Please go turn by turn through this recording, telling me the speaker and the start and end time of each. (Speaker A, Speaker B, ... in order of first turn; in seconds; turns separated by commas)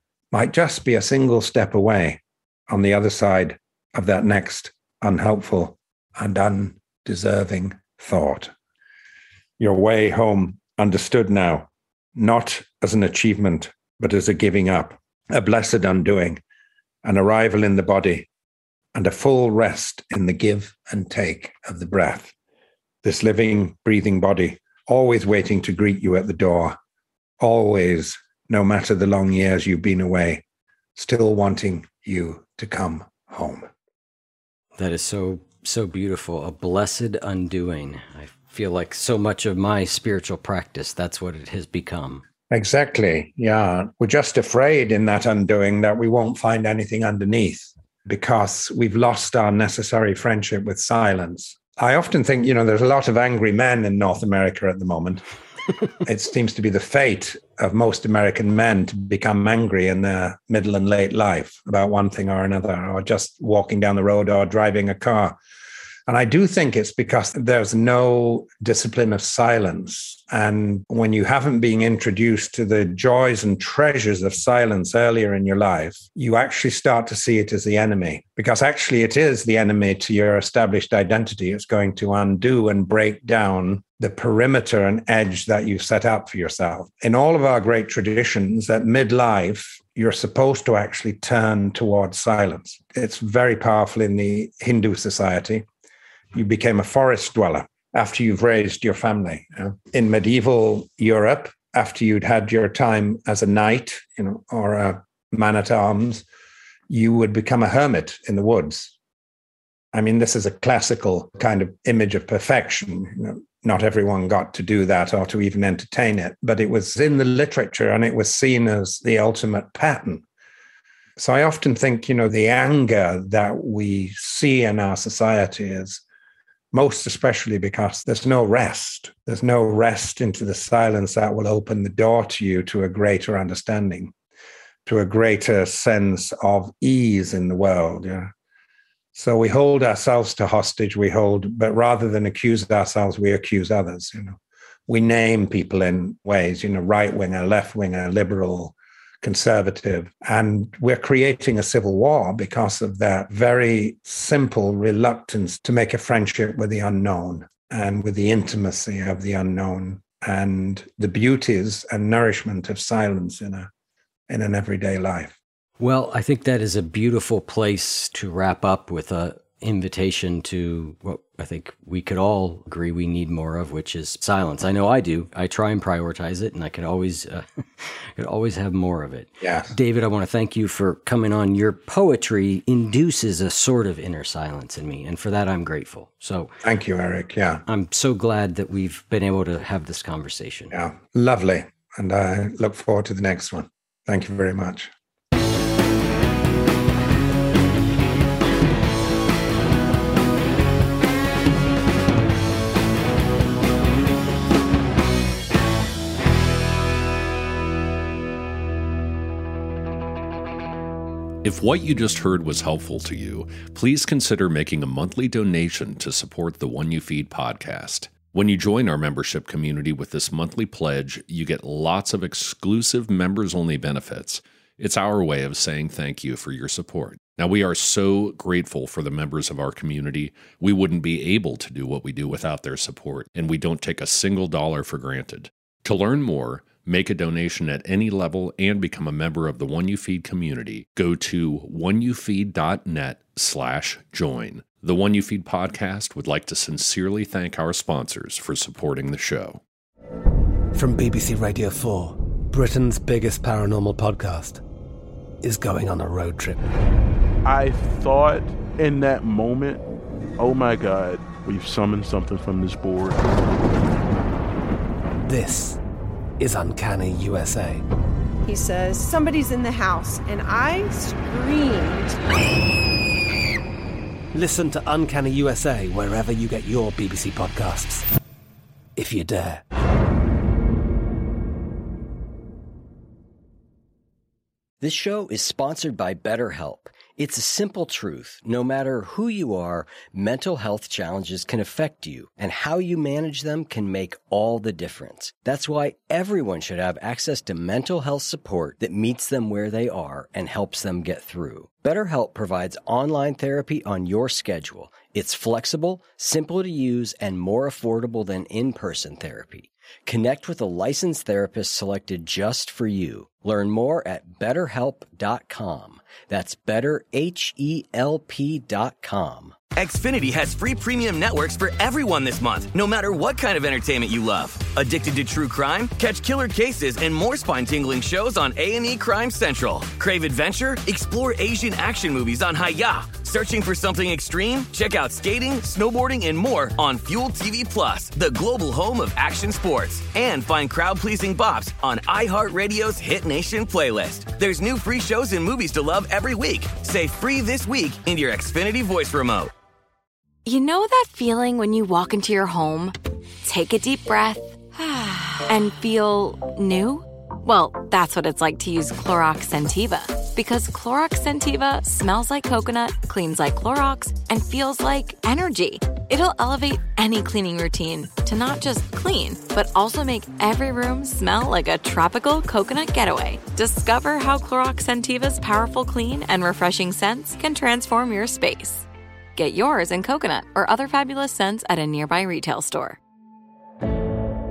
Speaker A: 0.3-8.5, Speaker A: 9.6-16.4, Speaker A: 17.0-18.3, Speaker A: 18.9-22.3, Speaker A: 23.0-26.8, Speaker A: 27.4-30.4, Speaker A: 30.9-33.7, Speaker B: 34.8-42.2, Speaker A: 42.5-55.2, Speaker A: 56.0-65.4, Speaker A: 66.1-95.6, Speaker A: 96.3-106.2, Speaker A: 106.9-108.9, Speaker A: 109.9-120.2, Speaker A: 121.2-126.0, Speaker A: 126.7-134.1, Speaker A: 134.8-138.3, Speaker A: 139.1-144.4, Speaker A: 144.9-163.7, Speaker A: 164.3-165.3, Speaker B: 165.8-186.5, Speaker A: 179.4-179.7, Speaker A: 186.6-187.6, Speaker B: 187.7-190.7, Speaker A: 190.7-194.9, Speaker C: 211.4-249.6, Speaker D: 250.7-254.6, Speaker D: 255.4-256.6, Speaker E: 257.4-259.8, Speaker E: 260.4-263.2, Speaker D: 265.2-265.8, Speaker D: 266.4-267.8, Speaker F: 268.4-272.2, Speaker D: 274.3-278.1, Speaker D: 278.9-279.6, Speaker B: 284.8-319.6, Speaker G: 319.7-349.5, Speaker H: 350.4-383.0